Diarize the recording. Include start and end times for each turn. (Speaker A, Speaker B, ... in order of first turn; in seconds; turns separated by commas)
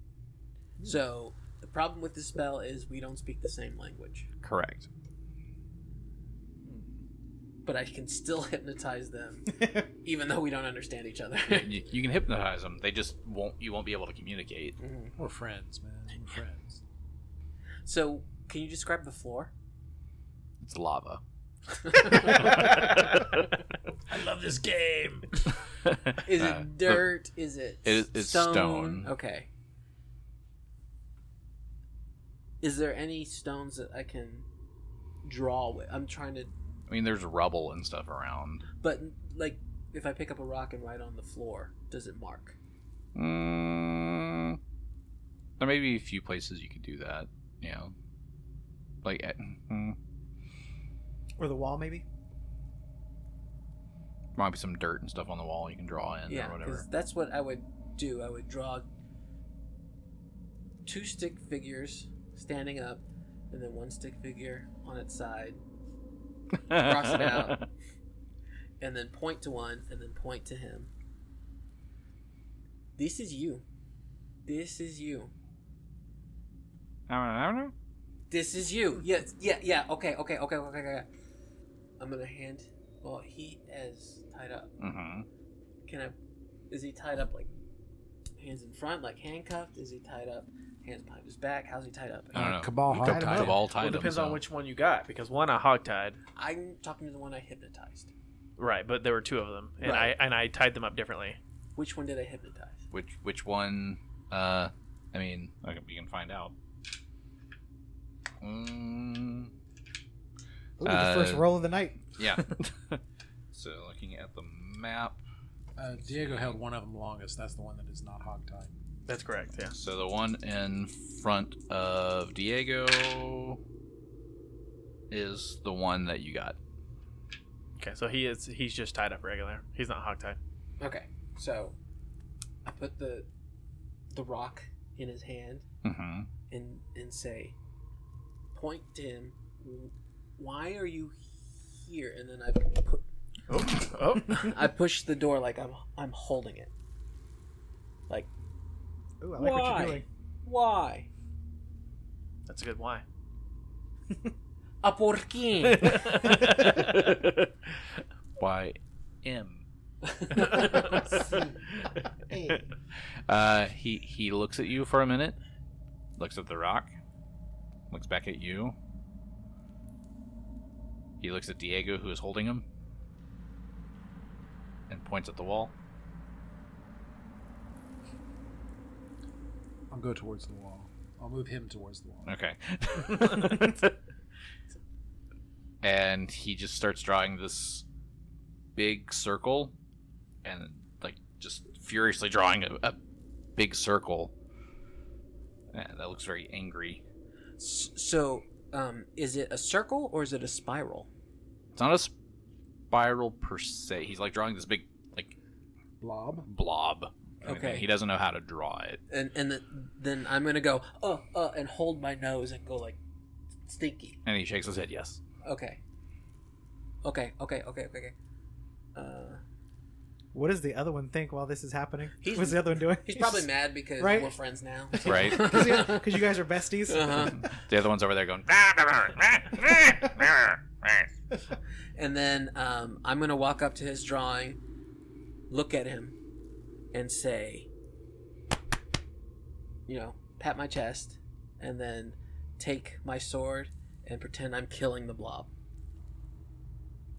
Speaker A: 0.8-4.3, Speaker B: 4.4-4.9, Speaker A: 7.6-11.7, Speaker B: 11.5-14.8, Speaker A: 14.8-15.1, Speaker C: 15.2-16.8, Speaker A: 17.8-19.5, Speaker B: 20.6-21.2, Speaker A: 21.7-22.6, Speaker C: 24.1-25.5, Speaker A: 26.2-29.5, Speaker B: 26.3-27.1, Speaker B: 27.8-29.1, Speaker A: 32.6-34.5, Speaker A: 35.2-36.5, Speaker B: 36.9-38.6, Speaker A: 38.8-42.6, Speaker B: 43.1-44.6, Speaker B: 45.6-47.9, Speaker B: 49.0-50.0, Speaker D: 51.4-52.0, Speaker B: 54.3-56.9, Speaker A: 56.3-58.9, Speaker A: 60.8-65.6, Speaker B: 66.6-67.6, Speaker A: 66.7-67.7, Speaker A: 68.8-70.9, Speaker A: 73.0-73.6, Speaker A: 74.5-75.3, Speaker B: 77.1-77.7, Speaker A: 78.3-81.1, Speaker A: 82.0-84.7, Speaker B: 84.8-85.2, Speaker A: 85.9-86.1, Speaker A: 86.7-87.5, Speaker A: 88.4-92.5, Speaker C: 92.3-93.6, Speaker B: 92.3-94.4, Speaker D: 93.0-93.6, Speaker E: 93.7-96.2, Speaker A: 96.3-98.1, Speaker E: 98.6-101.4, Speaker A: 99.8-100.1, Speaker A: 101.8-102.8, Speaker B: 102.9-106.5, Speaker B: 108.4-109.5, Speaker D: 110.8-112.0, Speaker B: 110.8-111.5, Speaker B: 112.1-113.0, Speaker B: 113.5-115.2, Speaker C: 115.8-118.8, Speaker B: 116.1-116.5, Speaker E: 119.1-119.7, Speaker B: 119.7-123.6, Speaker B: 125.1-126.6, Speaker E: 127.8-130.4, Speaker A: 130.8-131.7, Speaker A: 132.6-133.3, Speaker A: 134.1-135.7, Speaker B: 135.8-136.3, Speaker A: 136.5-137.6, Speaker A: 138.5-143.0, Speaker E: 143.5-144.6, Speaker A: 144.2-146.7, Speaker D: 149.2-150.0, Speaker A: 149.3-151.1, Speaker E: 152.4-153.0, Speaker A: 154.8-156.3, Speaker E: 155.6-157.5, Speaker B: 158.4-159.6, Speaker A: 160.1-161.1, Speaker B: 163.3-165.4, Speaker B: 166.2-166.9, Speaker B: 167.9-168.8, Speaker B: 171.2-172.6, Speaker B: 174.9-175.7, Speaker C: 179.9-182.3, Speaker B: 182.2-183.9, Speaker B: 185.8-187.8, Speaker B: 188.8-189.7, Speaker B: 190.4-193.0, Speaker B: 193.6-194.3, Speaker B: 195.7-197.0, Speaker A: 197.6-201.1, Speaker B: 201.7-202.1, Speaker B: 202.9-205.3, Speaker C: 206.0-206.5, Speaker B: 206.5-209.0, Speaker A: 207.4-207.9, Speaker A: 209.1-213.0, Speaker A: 213.6-214.2, Speaker B: 214.2-215.2, Speaker A: 215.4-215.8, Speaker A: 217.0-218.1, Speaker A: 218.9-219.4, Speaker D: 220.3-224.3, Speaker A: 222.2-226.2, Speaker D: 224.9-227.4, Speaker B: 225.0-225.5, Speaker A: 226.9-227.5, Speaker B: 227.5-231.1, Speaker A: 231.9-234.6, Speaker A: 235.5-236.1, Speaker A: 236.9-237.7, Speaker A: 239.9-245.5